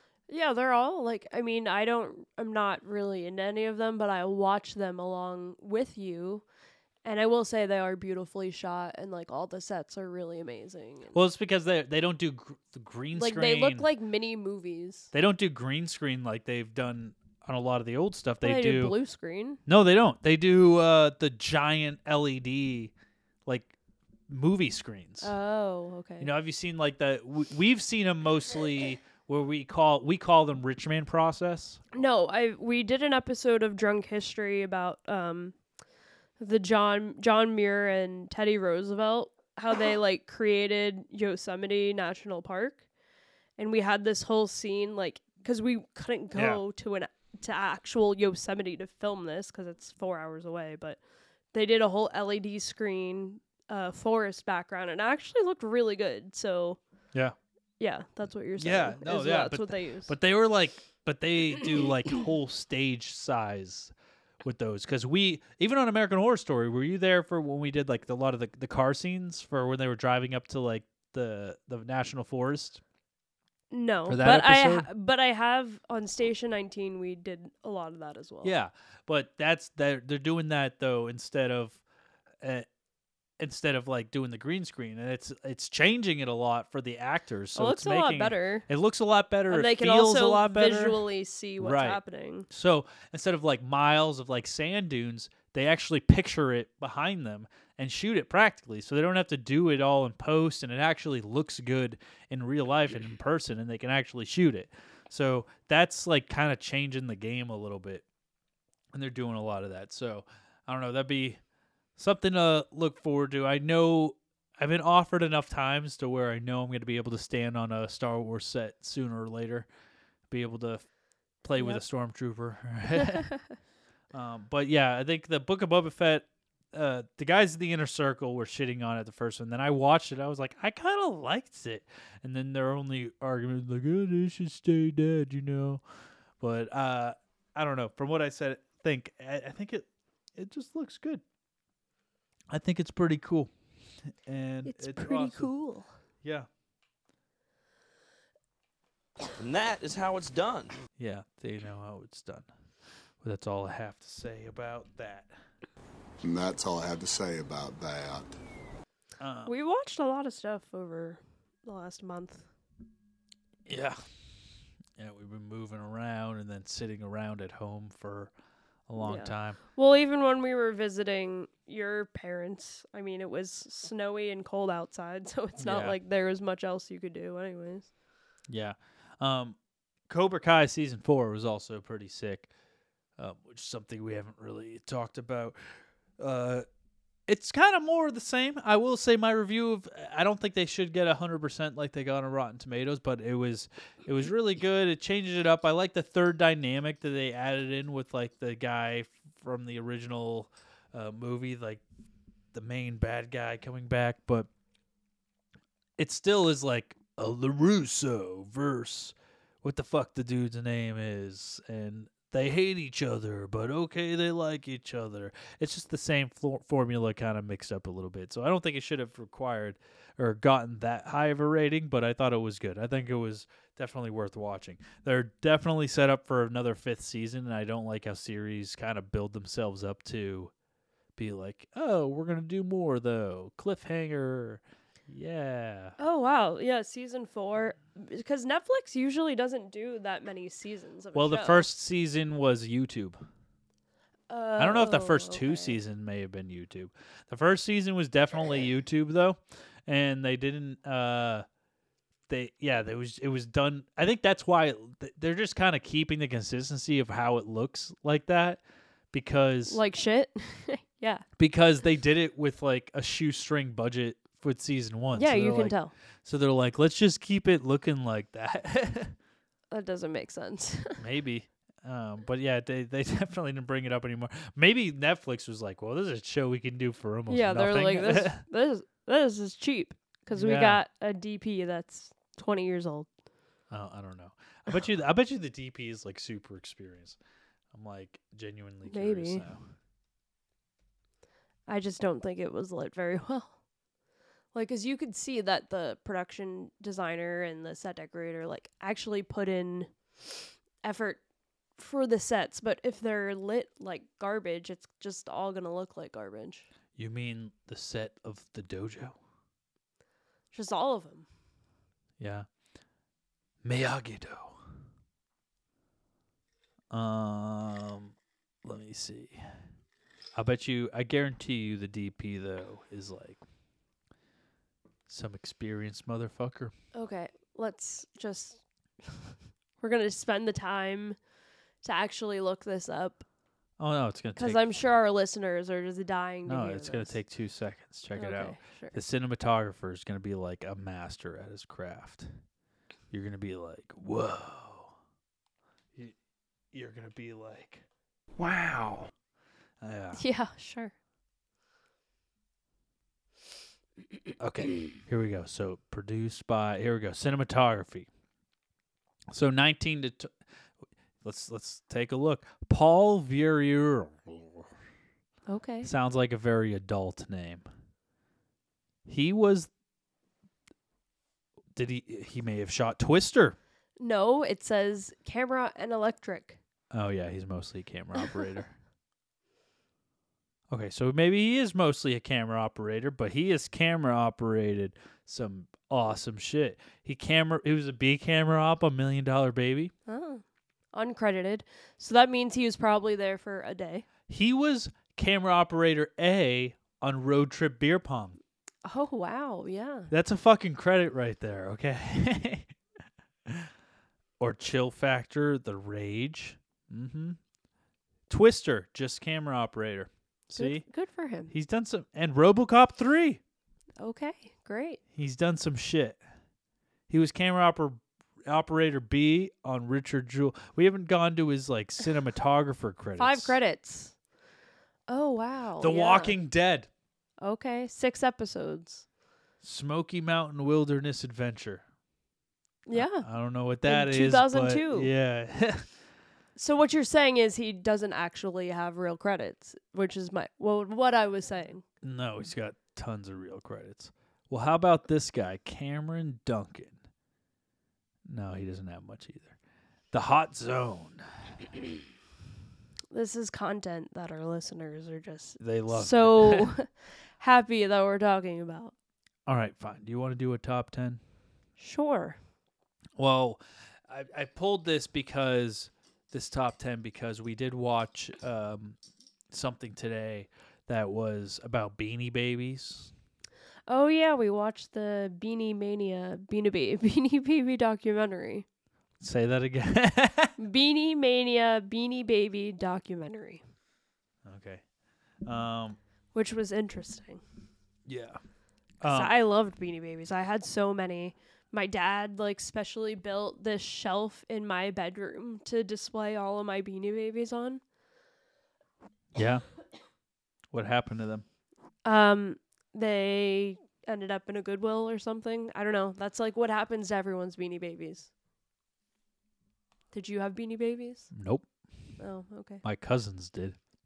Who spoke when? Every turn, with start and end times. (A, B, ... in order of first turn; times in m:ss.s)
0:00.3-0:06.4 A
0:07.0-0:11.2 A
0:11.1-0:13.9 B
0:13.1-0:15.1 A
0:15.1-0:18.9 B
0:18.4-0:19.6 A
0:19.6-0:22.9 B
0:23.4-0:23.7 B
0:24.3-0:25.3 B
0:25.2-0:26.3 A
0:26.2-0:31.8 B
0:31.9-0:35.6 A
0:36.4-0:42.8 A
0:43.6-0:51.0 A
0:46.3-0:46.6 B
0:51.5-0:56.8 A
0:57.8-1:00.1 A
0:58.6-1:12.8 B
1:13.7-1:18.5 A
1:14.1-1:14.9 B
1:18.4-1:21.8 B
1:22.4-1:22.6 B
1:23.4-1:31.0 B
1:27.5-1:28.6 A
1:29.5-1:32.5 A
1:31.6-1:48.0 B
1:48.9-1:51.4 B
1:52.0-1:59.7 B
2:00.3-2:00.9 B
2:01.4-2:03.3 B
2:03.0-2:03.4 A
2:04.1-2:15.8 B
2:16.4-2:21.2 B
2:22.5-2:23.5 B
2:24.2-2:25.5 B
2:24.6-2:25.9 A
2:26.2-2:26.5 B
2:29.4-2:30.7 C
2:31.0-2:32.5 B
2:33.2-2:35.3 B
2:36.2-2:38.3 D
2:39.2-2:39.5 B
2:39.4-2:42.4 A
2:43.6-2:44.0 B
2:45.0-2:48.3 B
2:48.9-2:49.6 B
2:49.0-2:57.9 A
2:55.6-2:56.0 B
2:58.5-2:59.6 B
3:00.1-3:02.5 B
3:03.2-3:05.6 B
3:06.2-3:06.6 B
3:07.3-3:21.8 B
3:22.5-3:24.5 B
3:26.0-3:50.5 B
3:51.2-3:56.0 B
3:56.0-4:01.7 A
4:01.1-4:03.2 B
4:04.3-4:05.7 A
4:04.6-4:11.4 B
4:12.3-4:18.6 B
4:19.1-4:19.8 B
4:19.7-4:21.2 A
4:21.4-4:29.1 B
4:25.1-4:25.9 A
4:29.7-4:31.0 A
4:31.0-4:38.4 B
4:37.3-4:43.1 A
4:40.3-4:40.8 B
4:43.7-4:47.2 B
4:47.7-4:49.6 B
4:48.8-4:49.4 A
4:51.7-4:53.5 A
4:54.5-4:59.9 A
5:00.8-5:01.2 A
5:01.8-5:06.7 A
5:07.0-5:09.2 B
5:10.5-5:11.3 A
5:12.2-5:12.4 B
5:13.6-5:14.6 B
5:16.9-5:19.4 B
5:20.3-5:23.4 B
5:25.1-5:26.7 B
5:26.9-5:31.2 A
5:31.8-5:33.2 A
5:33.8-5:34.7 B
5:34.4-5:37.2 A
5:36.5-5:42.3 B
5:38.1-5:39.0 A
5:43.1-5:44.9 B
5:46.7-5:47.8 B
5:48.4-5:49.1 C
5:49.8-5:50.2 B
5:50.1-5:50.9 A
5:54.4-5:58.1 B
5:59.3-6:00.3 B
6:01.2-6:04.6 B
6:05.5-6:05.9 A
6:05.8-6:07.6 B
6:09.0-6:09.7 B
6:11.7-6:13.6 B
6:14.0-6:16.6 A
6:16.9-6:18.7 B
6:20.7-6:29.9 B
6:30.1-6:34.0 A
6:34.3-6:38.4 B
6:38.8-6:40.1 A
6:40.1-6:42.7 B
6:44.4-6:47.4 B
6:48.3-6:50.8 B
6:50.6-6:51.5 A
6:51.5-6:53.4 B
6:54.0-6:55.0 A
6:55.1-6:56.2 B
6:57.1-7:03.6 B
7:03.2-7:04.1 A
7:05.1-7:06.4 A
7:05.8-7:06.9 B
7:07.4-7:09.0 A
7:09.6-7:11.8 B
7:12.9-7:13.2 A
7:12.9-7:15.9 B
7:13.8-7:15.1 A
7:16.6-7:21.8 A
7:22.0-7:27.0 B
7:28.2-7:29.6 B
7:30.1-7:31.8 B
7:33.1-7:38.9 A
7:35.6-7:36.7 B
7:39.4-7:41.2 B
7:41.8-7:42.4 A
7:43.2-7:49.0 B
7:49.5-7:53.1 B
7:53.9-7:58.6 A
7:59.2-8:00.5 B
8:00.6-8:03.6 A
8:04.4-8:04.8 B
8:05.4-8:06.0 B
8:06.3-8:07.4 A
8:08.0-8:08.4 B
8:09.0-8:09.3 B
8:09.0-8:17.8 A
8:19.3-8:19.6 B
8:20.7-8:21.4 B
8:22.0-8:28.3 A
8:30.1-8:31.3 A
8:31.3-8:31.6 B
8:32.2-8:32.8 A
8:32.8-8:33.8 B